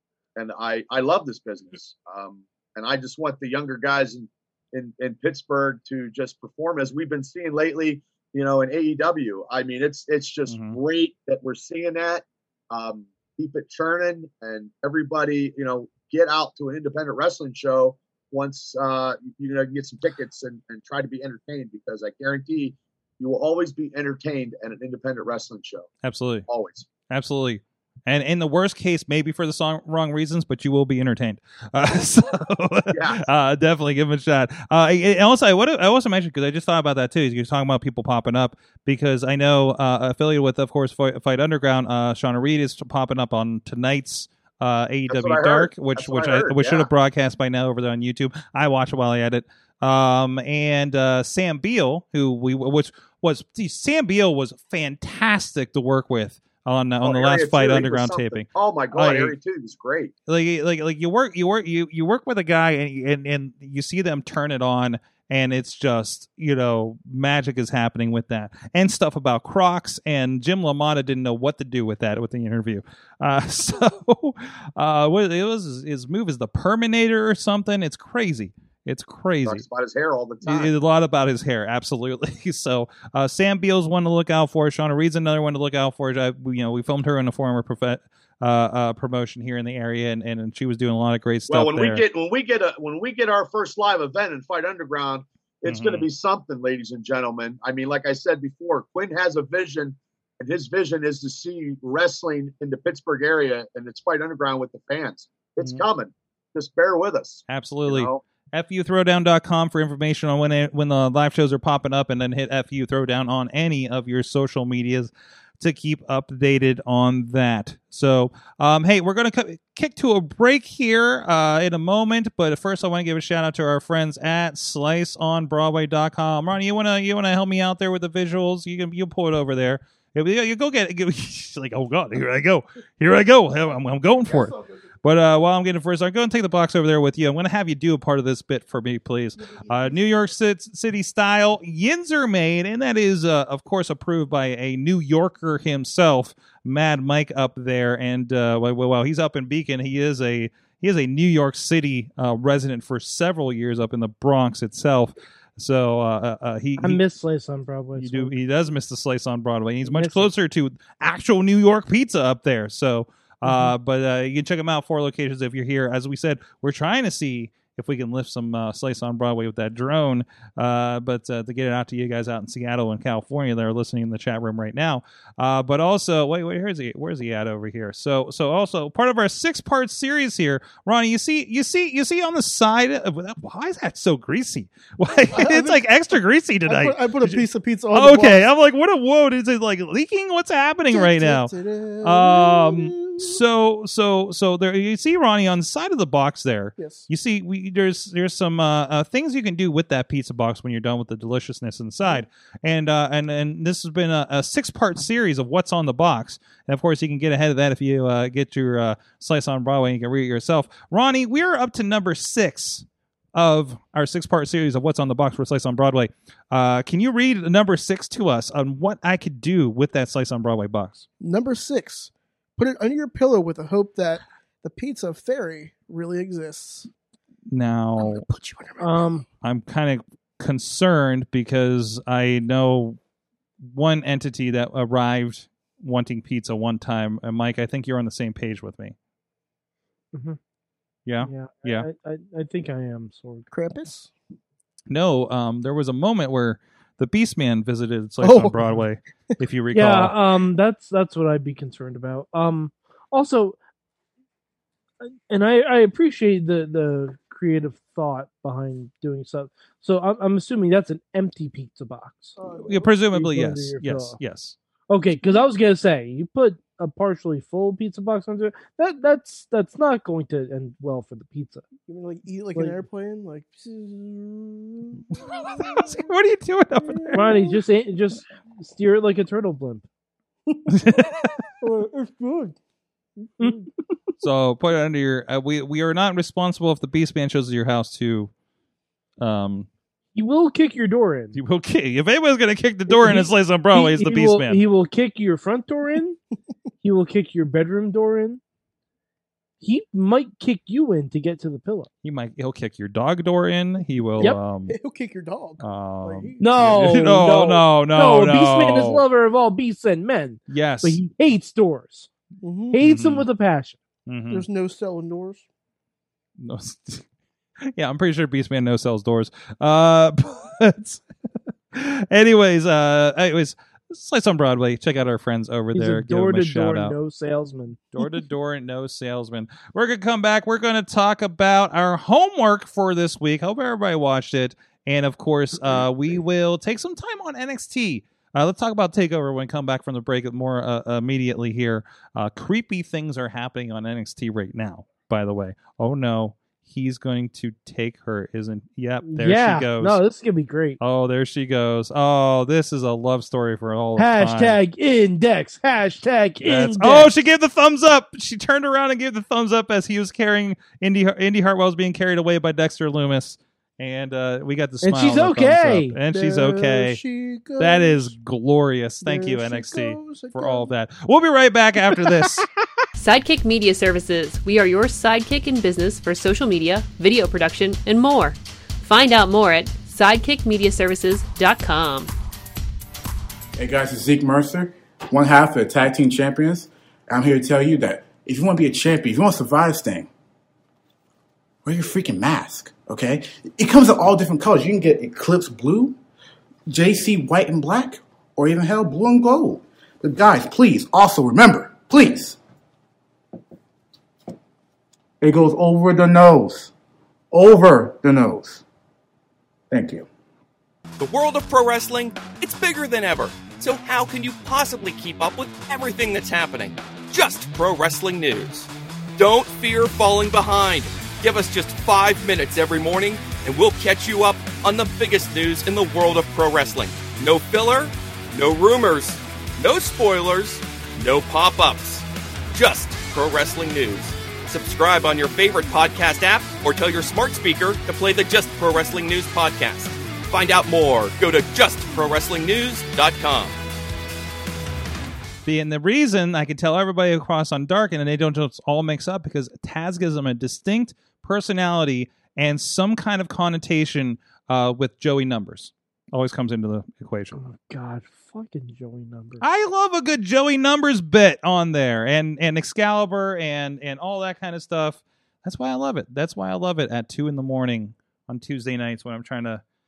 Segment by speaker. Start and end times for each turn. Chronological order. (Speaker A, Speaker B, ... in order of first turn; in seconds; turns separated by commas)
Speaker A: 0.4-25.9, Speaker B: 10.5-10.8, Speaker B: 26.0-26.5, Speaker A: 26.5-26.9, Speaker B: 27.1-59.4, Speaker A: 32.9-33.2, Speaker A: 45.1-46.9, Speaker A: 57.0-60.1, Speaker B: 60.3-79.7, Speaker A: 79.5-80.7, Speaker B: 80.4-92.0, Speaker A: 91.5-108.2, Speaker B: 95.7-96.1, Speaker B: 107.5-157.0, Speaker C: 134.2-134.8, Speaker C: 139.4-140.0, Speaker D: 156.8-158.3, Speaker B: 158.0-221.1, Speaker D: 159.8-160.3, Speaker D: 163.4-163.7, Speaker C: 185.3-185.8, Speaker C: 186.7-188.4, Speaker C: 190.9-193.4, Speaker C: 196.8-197.1, Speaker C: 221.2-226.9, Speaker B: 227.5-228.2, Speaker C: 228.0-229.2, Speaker D: 228.8-229.2, Speaker B: 229.4-233.0, Speaker B: 233.6-238.9, Speaker D: 240.1-240.4, Speaker B: 241.1-241.9, Speaker D: 241.2-243.5, Speaker C: 243.5-244.1, Speaker B: 244.9-250.2, Speaker C: 248.2-248.7, Speaker D: 249.7-253.6, Speaker D: 255.0-262.4, Speaker C: 262.4-263.0, Speaker B: 262.6-264.6, Speaker D: 263.1-264.2, Speaker D: 264.9-271.6, Speaker C: 271.9-276.1, Speaker D: 272.6-272.8, Speaker B: 275.1-277.5, Speaker C: 276.8-277.6, Speaker D: 277.1-279.9, Speaker C: 280.5-280.8, Speaker B: 280.7-281.4, Speaker C: 281.6-282.6, Speaker C: 283.2-283.7, Speaker B: 284.2-288.3, Speaker B: 289.2-289.7, Speaker D: 290.1-291.4, Speaker B: 291.3-294.6, Speaker D: 292.9-296.2, Speaker D: 296.8-298.4, Speaker D: 299.6-301.9, Speaker B: 302.0-304.8, Speaker C: 304.7-306.9, Speaker B: 305.6-309.0, Speaker D: 306.4-312.1, Speaker B: 310.5-311.0, Speaker C: 312.4-312.8, Speaker D: 312.7-313.8, Speaker B: 312.8-313.3, Speaker B: 314.1-314.5, Speaker C: 314.3-315.4, Speaker B: 316.4-317.1, Speaker B: 317.6-321.0, Speaker B: 321.7-327.0, Speaker D: 325.7-327.9, Speaker B: 327.9-350.0, Speaker D: 349.0-350.8, Speaker B: 350.8-354.6, Speaker D: 354.0-357.1, Speaker B: 356.4-367.0, Speaker D: 364.8-366.0, Speaker C: 366.1-368.1, Speaker B: 367.6-372.5, Speaker C: 369.0-370.7, Speaker E: 373.0-382.1, Speaker F: 383.6-390.1, Speaker F: 391.6-396.0, Speaker F: 396.7-402.4, Speaker F: 405.2-406.7, Speaker F: 407.3-408.6, Speaker F: 409.7-410.1, Speaker G: 411.0-443.6, Speaker B: 445.4-457.4, Speaker D: 457.4-459.4, Speaker B: 459.4-469.6